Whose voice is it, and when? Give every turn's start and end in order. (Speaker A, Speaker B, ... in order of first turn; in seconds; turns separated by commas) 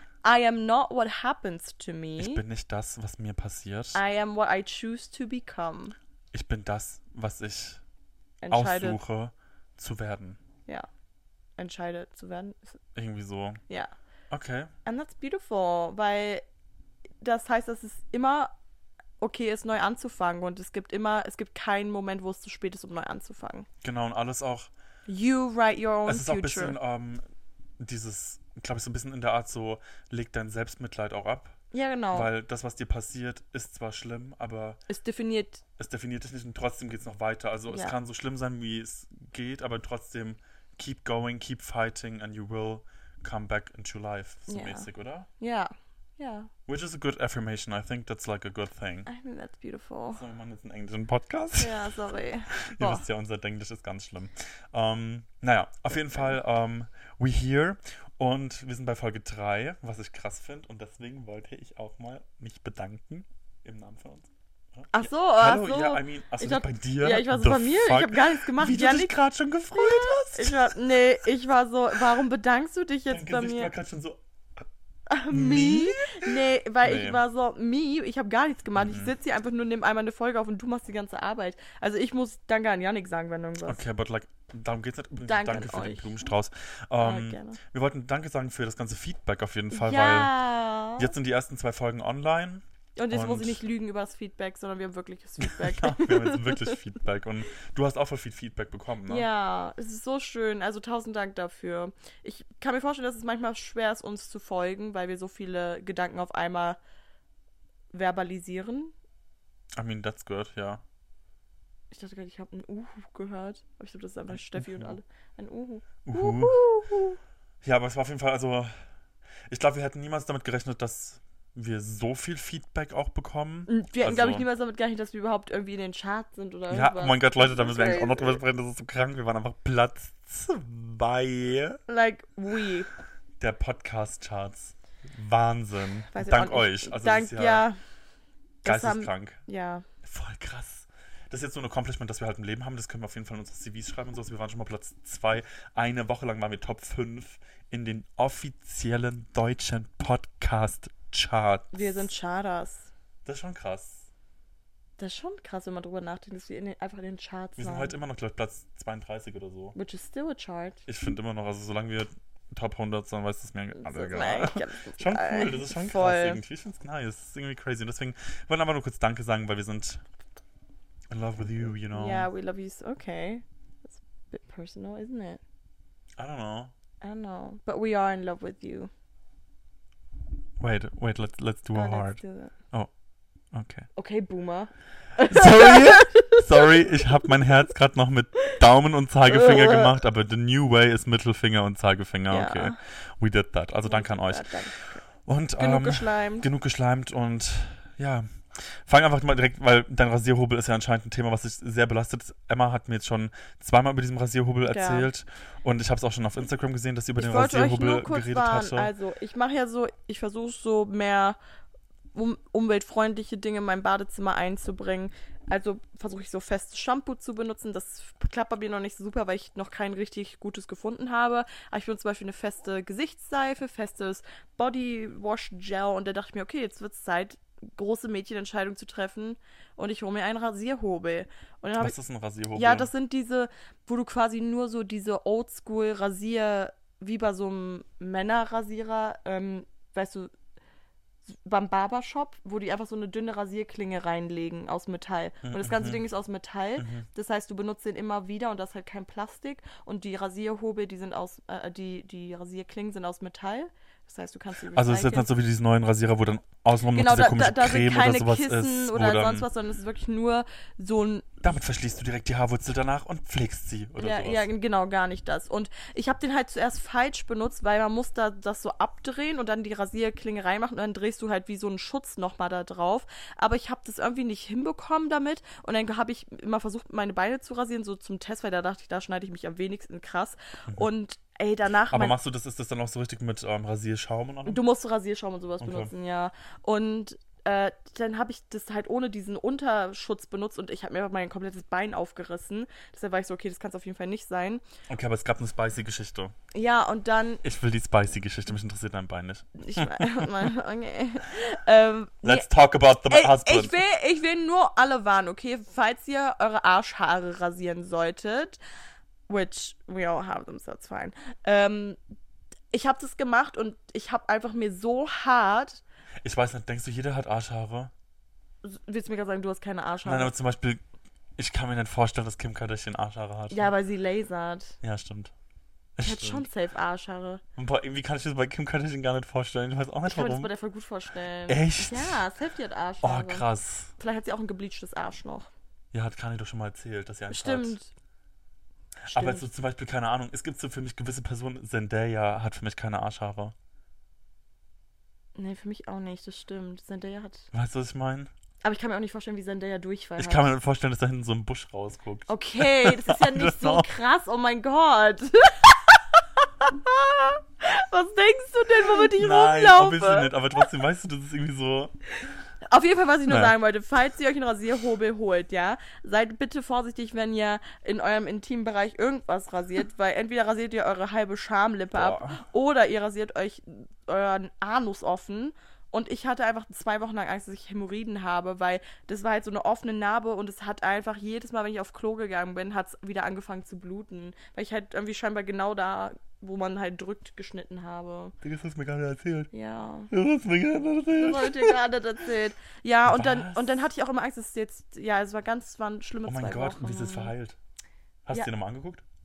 Speaker A: 0.2-2.4, Speaker B: 2.2-4.0, Speaker A: 3.9-6.0, Speaker B: 6.3-7.8, Speaker A: 8.4-9.0, Speaker B: 8.5-10.4, Speaker A: 11.6-12.8, Speaker B: 12.9-13.6, Speaker B: 14.3-14.7, Speaker A: 14.9-16.4, Speaker A: 17.2-18.5, Speaker A: 19.2-23.7, Speaker B: 23.8-24.7, Speaker A: 25.1-26.8, Speaker B: 26.1-27.2, Speaker B: 27.8-31.6, Speaker A: 31.7-32.3, Speaker B: 32.1-34.8, Speaker A: 34.9-35.6, Speaker B: 35.8-45.3, Speaker A: 37.7-38.0, Speaker A: 44.5-44.9, Speaker A: 45.4-46.5, Speaker B: 46.7-49.1, Speaker A: 49.1-50.2, Speaker B: 50.1-51.9, Speaker A: 51.6-53.0, Speaker B: 52.5-70.8, Speaker A: 64.9-69.1, Speaker A: 69.8-73.7, Speaker B: 73.1-74.2, Speaker A: 75.1-83.8, Speaker B: 75.3-77.2, Speaker B: 78.8-79.1, Speaker B: 83.7-90.3, Speaker A: 85.3-86.1, Speaker A: 87.0-87.6, Speaker A: 89.7-91.1, Speaker B: 91.0-93.6, Speaker A: 93.0-96.8, Speaker B: 95.4-99.3, Speaker A: 99.1-106.8, Speaker A: 107.9-108.9, Speaker B: 109.8-110.8, Speaker A: 111.9-117.2, Speaker B: 114.3-115.0, Speaker B: 116.0-116.6, Speaker B: 117.6-118.7, Speaker B: 119.5-124.5, Speaker A: 123.7-128.4, Speaker B: 126.7-131.8, Speaker A: 131.9-132.9, Speaker B: 133.4-137.7, Speaker A: 136.1-137.8, Speaker A: 138.6-139.8, Speaker B: 138.7-139.4, Speaker B: 140.0-151.9, Speaker A: 151.7-152.9, Speaker B: 153.2-154.1, Speaker A: 155.0-157.9, Speaker B: 157.6-159.8, Speaker A: 159.8-160.8, Speaker B: 160.9-170.0, Speaker A: 163.8-166.4, Speaker B: 171.1-172.3, Speaker A: 171.6-175.4, Speaker B: 176.2-176.7, Speaker A: 177.0-178.9, Speaker B: 180.6-182.2, Speaker A: 181.7-182.5, Speaker B: 183.5-183.9, Speaker A: 184.0-186.4, Speaker B: 185.3-208.9, Speaker A: 189.3-190.0, Speaker A: 192.3-192.8, Speaker A: 193.8-195.0, Speaker A: 195.6-196.5, Speaker A: 204.7-205.1, Speaker A: 207.2-211.4, Speaker A: 212.1-232.0, Speaker B: 231.8-232.9, Speaker A: 232.5-240.3, Speaker A: 241.3-255.3, Speaker B: 245.4-246.0, Speaker B: 246.8-247.1, Speaker B: 254.7-259.5, Speaker A: 256.9-261.3, Speaker B: 261.4-264.5, Speaker A: 264.0-282.2, Speaker B: 281.9-284.6, Speaker A: 284.5-294.6, Speaker B: 285.6-285.9, Speaker B: 294.9-296.3, Speaker A: 296.5-297.4, Speaker B: 297.4-300.5, Speaker A: 299.6-308.6, Speaker B: 302.2-303.8, Speaker A: 309.3-312.0, Speaker A: 312.7-315.8, Speaker B: 316.2-317.9, Speaker A: 318.6-320.3, Speaker B: 320.1-320.8, Speaker B: 321.4-323.7, Speaker A: 323.5-324.8, Speaker B: 324.8-325.3, Speaker B: 326.0-326.5, Speaker A: 326.0-327.4, Speaker B: 327.6-330.5, Speaker A: 330.1-333.5, Speaker B: 331.5-332.2, Speaker B: 333.0-333.9, Speaker A: 334.0-335.5, Speaker B: 335.9-337.8, Speaker A: 337.3-337.9, Speaker B: 339.1-343.6, Speaker A: 339.1-339.5, Speaker A: 345.4-347.5, Speaker B: 347.5-348.3, Speaker A: 348.6-350.6, Speaker B: 350.2-354.0, Speaker A: 352.3-360.3, Speaker B: 359.0-361.9, Speaker A: 362.6-388.4, Speaker B: 363.3-363.5, Speaker B: 371.9-372.4, Speaker B: 388.4-389.5, Speaker A: 389.5-390.1, Speaker B: 390.1-391.8, Speaker A: 391.1-397.3, Speaker B: 393.1-393.7, Speaker B: 396.3-397.6, Speaker B: 398.2-399.0